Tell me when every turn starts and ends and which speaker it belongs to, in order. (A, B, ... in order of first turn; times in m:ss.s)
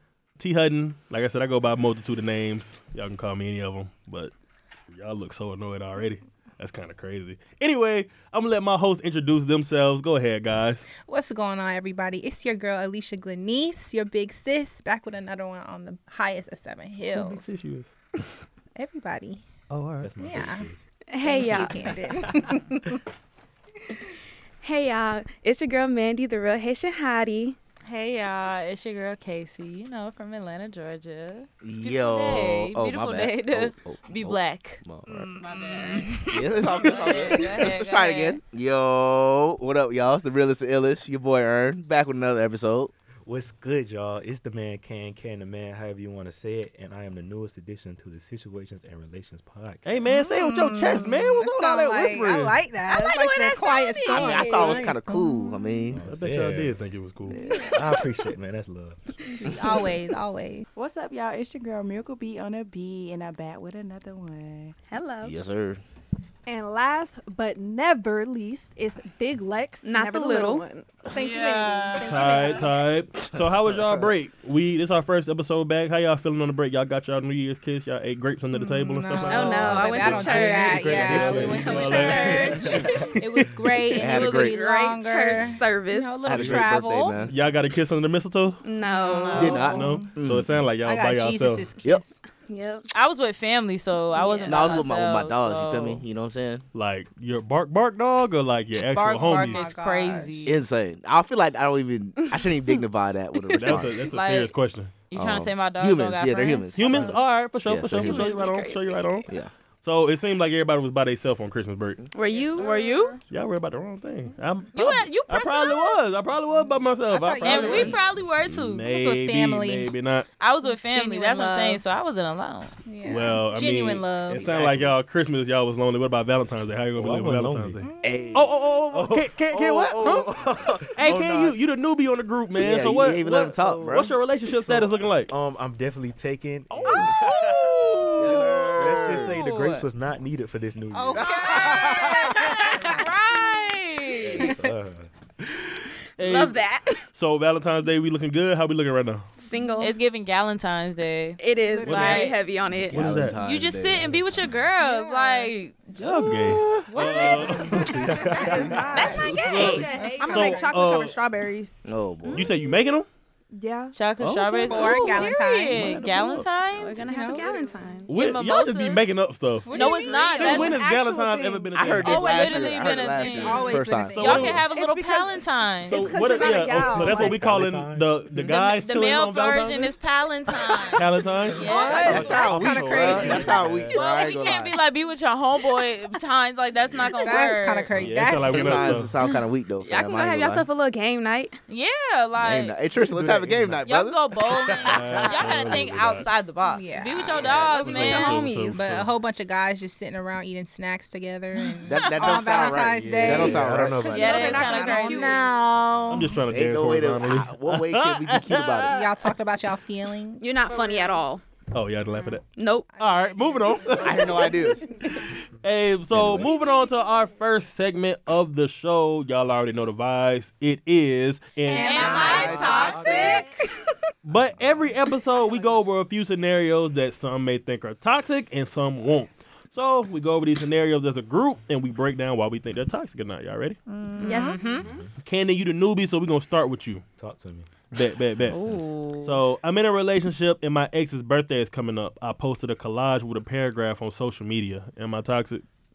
0:00.4-0:04.3 A
0:04.9-0:10.9 A
0:11.0-0:17.5 B
0:17.1-0:17.9 A
0:18.8-0:19.4 B
0:19.7-0:20.1 A
0:20.0-0:20.8 C
0:20.2-0:20.7 B
0:21.1-0:22.0 D
0:21.2-0:23.0 B
0:22.2-0:22.5 C
0:24.6-0:27.6 D
0:27.9-0:34.8 E
0:31.6-0:35.3 F
0:35.1-0:37.7 B
0:35.4-0:36.2 E
0:36.2-0:42.9 F
0:36.7-0:38.4 E
0:43.2-0:50.0 C
0:49.8-0:52.6 A
0:50.1-0:55.9 B
0:52.9-0:54.8 D
0:54.1-0:56.0 F
0:55.9-0:56.8 C
0:56.0-0:57.4 A
0:57.3-0:57.8 F
0:57.5-0:57.8 B
0:57.7-0:59.0 C
0:59.4-1:00.6 B
0:59.4-0:59.8 F
1:00.8-1:04.8 G
1:04.9-1:05.3 D
1:05.2-1:05.8 F
1:06.5-1:12.7 H
1:09.8-1:10.7 D
1:11.1-1:12.5 E
1:12.0-1:23.5 A
1:13.7-1:14.1 F
1:18.5-1:27.2 B
1:19.3-1:22.4 D
1:19.9-1:21.8 C
1:21.1-1:21.4 F
1:21.7-1:22.9 E
1:23.9-1:24.6 F
1:23.9-1:26.3 D
1:26.3-1:27.3 F
1:27.2-1:28.6 A
1:28.6-1:29.8 D
1:28.9-1:30.0 B
1:29.0-1:29.6 E
1:29.3-1:31.7 A
1:29.4-1:30.5 F
1:30.8-1:32.2 B
1:32.5-1:32.9 D
1:32.9-1:36.0 E
1:34.1-1:34.8 D
1:34.5-1:36.6 F
1:36.7-1:39.7 A
1:38.8-1:40.6 E
1:39.3-1:40.5 B
1:40.5-1:44.1 F
1:43.6-1:44.9 A
1:44.0-1:44.5 E
1:45.1-1:47.0 E
1:45.1-1:48.5 F
1:46.8-1:49.3 A
1:47.9-1:49.2 D
1:49.8-1:52.0 A
1:52.1-1:52.8 D
1:52.3-1:53.2 G
1:52.6-1:53.2 E
1:52.6-1:53.0 B
1:53.3-2:00.3 A
1:54.7-1:56.1 E
1:57.1-1:58.1 B
1:57.4-1:58.9 E
1:58.9-1:59.9 B
2:00.4-2:02.7 E
2:00.6-2:01.8 B
2:02.9-2:04.4 B
2:03.0-2:15.3 A
2:04.3-2:05.0 C
2:07.0-2:07.8 C
2:07.8-2:08.4 B
2:08.0-2:08.9 F
2:08.9-2:11.6 C
2:12.6-2:14.1 F
2:14.5-2:17.2 C
2:16.7-2:18.0 A
2:17.1-2:19.9 E
2:18.2-2:19.4 F
2:18.4-2:21.6 C
2:20.9-2:23.1 B
2:21.2-2:24.6 E
2:21.2-2:22.3 F
2:24.1-2:25.1 C
2:24.2-2:24.7 B
2:26.2-2:26.6 A
2:26.2-2:27.0 D
2:27.1-2:29.3 A
2:29.4-2:30.0 D
2:29.8-2:31.4 E
2:31.4-2:33.1 D
2:31.6-2:32.4 H
2:31.8-2:32.3 A
2:31.9-2:32.4 E
2:32.8-2:34.2 F
2:32.9-2:33.4 A
2:33.4-2:37.9 E
2:34.8-2:35.5 B
2:36.0-2:38.3 A
2:37.1-2:40.8 B
2:37.7-2:39.3 C
2:37.8-2:39.9 F
2:38.1-2:42.0 H
2:38.9-2:39.9 E
2:39.1-2:41.2 A
2:39.7-2:40.3 G
2:41.8-2:42.5 F
2:42.2-2:42.5 D
2:42.3-2:43.1 A
2:43.5-2:44.0 H
2:43.9-2:47.1 E
2:44.2-2:46.5 A
2:44.7-2:46.1 B
2:46.7-2:48.1 D
2:47.0-2:47.6 B
2:48.1-2:49.7 A
2:48.1-2:49.0 E
2:49.7-2:50.7 B
2:49.7-2:50.8 E
2:49.7-2:51.9 H
2:49.7-2:50.5 G
2:50.4-2:52.3 A
2:51.7-2:54.3 F
2:52.0-2:56.1 E
2:52.8-2:54.6 B
2:54.1-2:54.6 A
2:54.4-2:57.4 H
2:55.9-2:59.9 A
2:56.2-2:58.4 C
2:58.5-3:02.4 E
3:00.9-3:03.8 A
3:01.6-3:03.6 B
3:01.6-3:02.4 H
3:01.9-3:04.8 F
3:02.1-3:03.9 C
3:03.9-3:07.9 E
3:07.1-3:09.1 B
3:08.0-3:09.1 A
3:08.5-3:10.7 F
3:09.8-3:11.5 D
3:11.7-3:12.8 E
3:12.4-3:14.2 F
3:13.0-3:13.8 C
3:13.8-3:18.4 E
3:14.5-3:15.2 C
3:14.9-3:16.3 A
3:16.6-3:17.5 B
3:17.4-3:17.6 F
3:17.4-3:19.1 A
3:17.6-3:18.8 D
3:18.3-3:23.6 B
3:21.8-3:24.6 F
3:22.4-3:23.5 A
3:23.2-3:24.9 C
3:23.9-3:25.5 H
3:24.1-3:25.4 E
3:24.3-3:26.4 B
3:25.8-3:26.3 C
3:26.1-3:29.0 A
3:26.4-3:29.1 F
3:28.8-3:31.2 B
3:30.4-3:31.4 D
3:31.7-3:32.4 A
3:32.6-3:32.9 D
3:32.9-3:34.5 B
3:33.0-3:34.5 A
3:34.0-3:34.8 F
3:35.6-3:42.5 A
3:36.1-3:36.5 C
3:41.7-3:43.4 E
3:41.7-3:42.9 B
3:41.7-3:43.8 D
3:41.9-3:42.4 H
3:42.1-3:43.5 F
3:42.4-3:43.4 C
3:44.2-3:53.8 A
3:53.9-3:54.8 B
3:54.1-3:54.8 E
3:54.2-3:54.8 D
3:54.8-3:55.1 C
3:55.2-3:57.0 A
3:57.2-3:57.7 C
3:57.9-3:58.6 A
3:58.5-3:59.4 E
3:59.2-4:05.6 A